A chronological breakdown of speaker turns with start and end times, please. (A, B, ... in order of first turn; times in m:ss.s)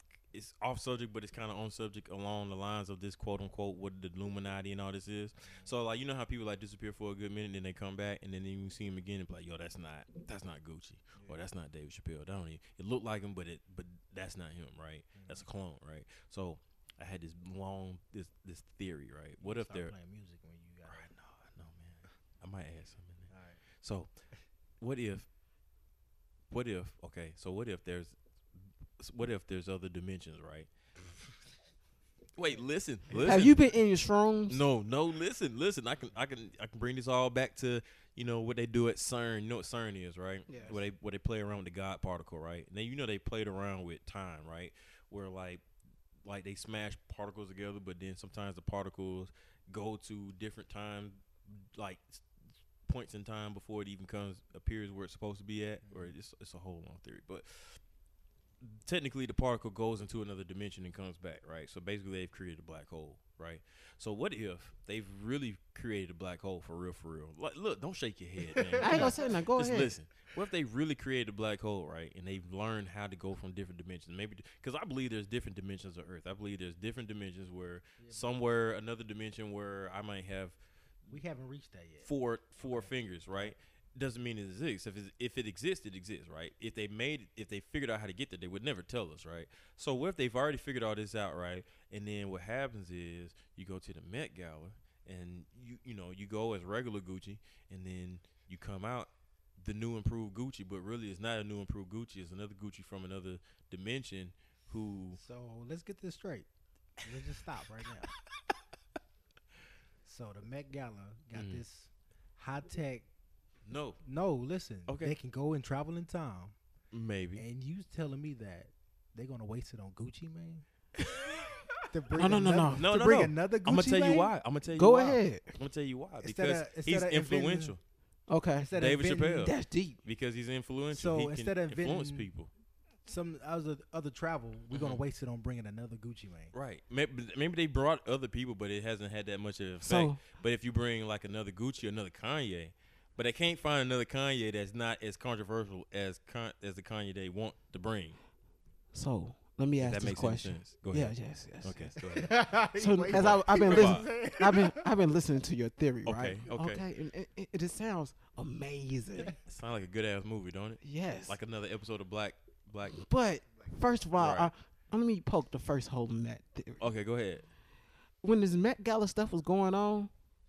0:00.3-0:19.9 A
0:15.2-0:15.5 B
0:19.4-0:21.1 B
0:20.9-0:24.1 A
0:23.3-0:23.6 B
0:24.8-0:25.3 A
0:26.5-0:28.2 A
0:29.0-0:30.7 A
0:32.4-0:33.6 A
0:33.2-0:34.6 C
0:34.5-0:45.6 A
0:40.5-0:40.8 C
0:46.2-0:52.3 A
0:52.8-0:57.8 A
0:55.8-0:56.1 B
0:58.6-1:20.6 A
1:08.5-1:09.4 B
1:08.8-1:09.9 C
1:18.0-1:18.3 B
1:21.1-1:22.9 B
1:22.0-1:45.2 A
1:45.2-1:46.5 B
1:47.0-1:48.1 B
1:50.0-1:53.1 B
1:51.3-1:51.6 A
1:53.7-1:54.0 A
1:54.0-1:56.6 B
1:54.9-1:55.2 A
1:56.9-1:57.4 A
1:57.4-2:00.6 B
2:01.0-2:01.7 A
2:01.9-2:04.3 B
2:02.1-2:02.9 C
2:02.8-2:07.8 A
2:04.8-2:05.5 C
2:06.2-2:07.8 B
2:08.3-2:08.7 C
2:08.6-2:09.5 B
2:08.7-2:12.5 A
2:09.4-2:10.0 C
2:10.9-2:12.3 B
2:13.1-2:16.5 B
2:14.7-2:15.0 A
2:16.5-2:28.2 A
2:19.8-2:20.2 C
2:28.9-2:32.0 C
2:29.8-2:32.4 A
2:32.0-2:34.9 B
2:32.8-2:39.3 C
2:33.1-2:34.1 A
2:36.0-2:36.8 A
2:39.2-2:43.0 A
2:40.8-2:41.4 C
2:43.0-2:46.8 C
2:44.2-2:44.5 A
2:46.8-2:47.5 A
2:48.2-2:50.1 C